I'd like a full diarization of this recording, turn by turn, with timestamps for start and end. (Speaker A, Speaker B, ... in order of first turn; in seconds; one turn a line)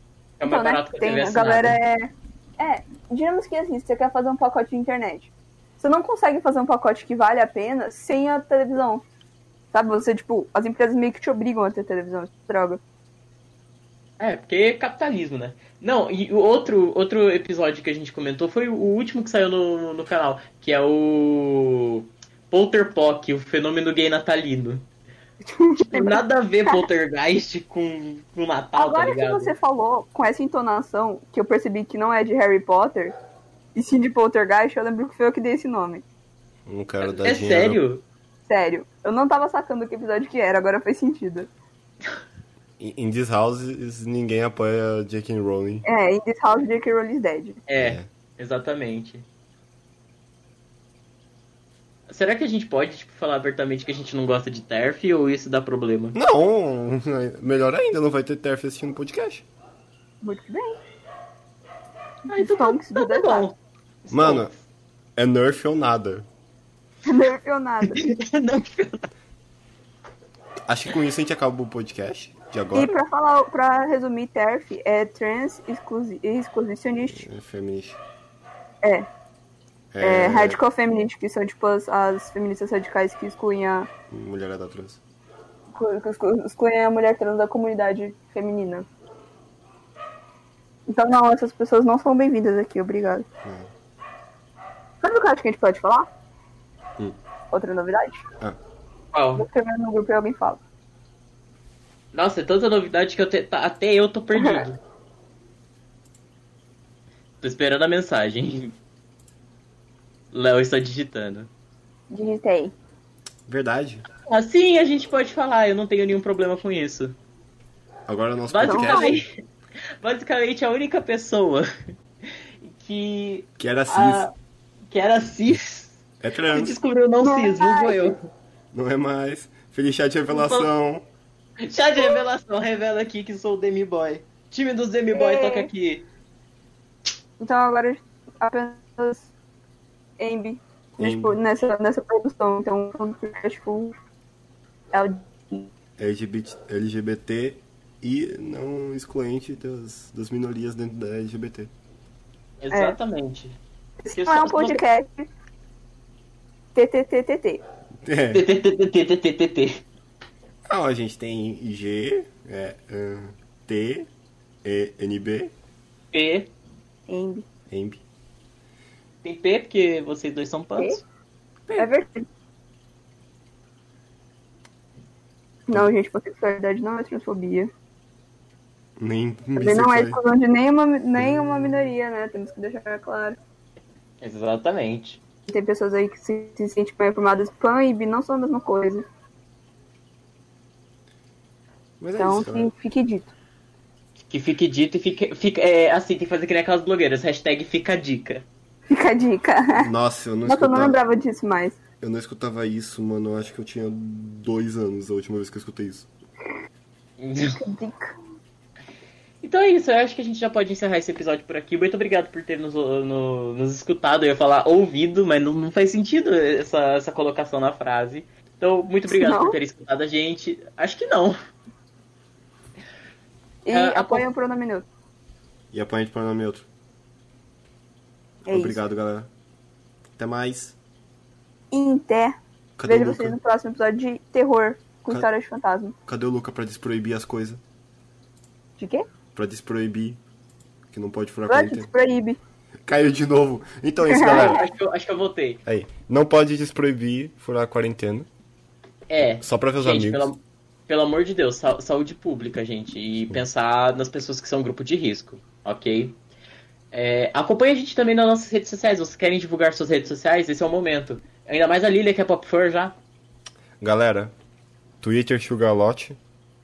Speaker A: 0.4-1.8
Speaker B: 0.5-9.0
Speaker B: 9.7-12.8
Speaker A: 14.2-24.9
Speaker B: 25.4-26.9
Speaker A: 25.8-29.5
Speaker B: 28.8-33.1
Speaker B: 33.8-36.0
Speaker C: 36.7-37.8
Speaker A: 37.0-38.0
Speaker B: 38.5-41.5
Speaker C: 42.8-45.8
Speaker B: 45.9-47.6
Speaker A: 47.7-49.3
Speaker C: 47.8-48.0
Speaker A: 52.1-56.2
Speaker C: 56.1-59.5
Speaker B: 60.2-60.8
Speaker A: 62.3-64.6
Speaker B: 62.3-63.5
Speaker C: 64.1-64.5
Speaker C: 65.2-66.3
Speaker B: 67.0-68.1
Speaker A: 67.8-69.1
Speaker C: 70.7-72.9
Speaker B: 72.7-77.3
Speaker C: 77.1-78.0
Speaker B: 78.8-79.1
Speaker C: 79.9-80.6
Speaker B: 80.0-83.9
Speaker C: 84.1-85.0
Speaker B: 85.7-88.9
Speaker B: 90.9-93.3
Speaker C: 93.4-93.7
Speaker B: 95.0-96.1
Speaker B: 97.5-98.2
Speaker A: 99.1-99.5
Speaker B: 99.4-100.6
Speaker A: 102.1-104.8
Speaker B: 104.3-104.7
Speaker A: 107.4-108.8
Speaker A: 110.3-111.5
Speaker B: 112.1-112.7
Speaker C: 113.5-114.0
Speaker A: 114.3-117.2
Speaker C: 118.1-119.2
Speaker A: 118.5-119.3
Speaker B: 118.7-119.2
Speaker A: 120.0-121.7
Speaker A: 122.6-124.3
Speaker C: 123.6-124.3
Speaker A: 124.9-128.3
Speaker C: 126.2-126.8
Speaker B: 127.2-128.1
Speaker C: 128.7-131.1
Speaker A: 130.3-130.7
Speaker A: 131.6-136.1
Speaker B: 135.1-135.7
Speaker B: 137.4-139.3
Speaker B: 140.2-143.9
Speaker C: 141.0-141.4
Speaker B: 144.9-145.7
Speaker C: 146.0-151.7
Speaker A: 152.6-153.6
Speaker B: 152.7-153.0
Speaker B: 154.0-155.3
Speaker A: 154.1-154.8
Speaker B: 156.8-157.6
Speaker C: 158.0-158.4
Speaker A: 158.3-159.8
Speaker C: 160.7-164.1
Speaker C: 164.6-165.5
Speaker A: 166.1-166.5
Speaker B: 167.1-167.4
Speaker C: 167.7-168.0
Speaker A: 169.2-171.0
Speaker B: 171.8-172.3
Speaker B: 175.7-177.7
Speaker C: 179.0-180.2
Speaker B: 179.6-183.4
Speaker C: 181.2-181.9
Speaker A: 184.2-185.2
Speaker B: 185.5-189.1
Speaker C: 192.0-192.7
Speaker B: 192.2-193.3
Speaker A: 194.3-198.5
Speaker B: 198.9-199.9
Speaker C: 199.8-201.0
Speaker B: 200.5-201.8
Speaker C: 202.0-206.1
Speaker A: 207.2-207.6
Speaker B: 207.5-208.2
Speaker A: 209.4-221.4
Speaker B: 219.1-219.6
Speaker B: 223.7-224.9
Speaker A: 223.7-224.3
Speaker C: 225.7-226.7
Speaker C: 228.5-229.3
Speaker B: 228.5-228.8
Speaker C: 230.2-230.8
Speaker B: 231.7-235.9
Speaker C: 232.8-233.4
Speaker C: 236.1-237.6
Speaker B: 238.8-239.1
Speaker C: 239.3-240.2
Speaker C: 240.9-241.9
Speaker B: 241.5-242.4
Speaker C: 242.9-244.6
Speaker B: 244.1-244.6
Speaker A: 244.2-245.6
Speaker C: 245.7-248.3
Speaker A: 249.1-256.2
Speaker C: 249.4-250.3
Speaker A: 256.9-263.0
Speaker C: 263.8-264.3
Speaker C: 265.0-266.2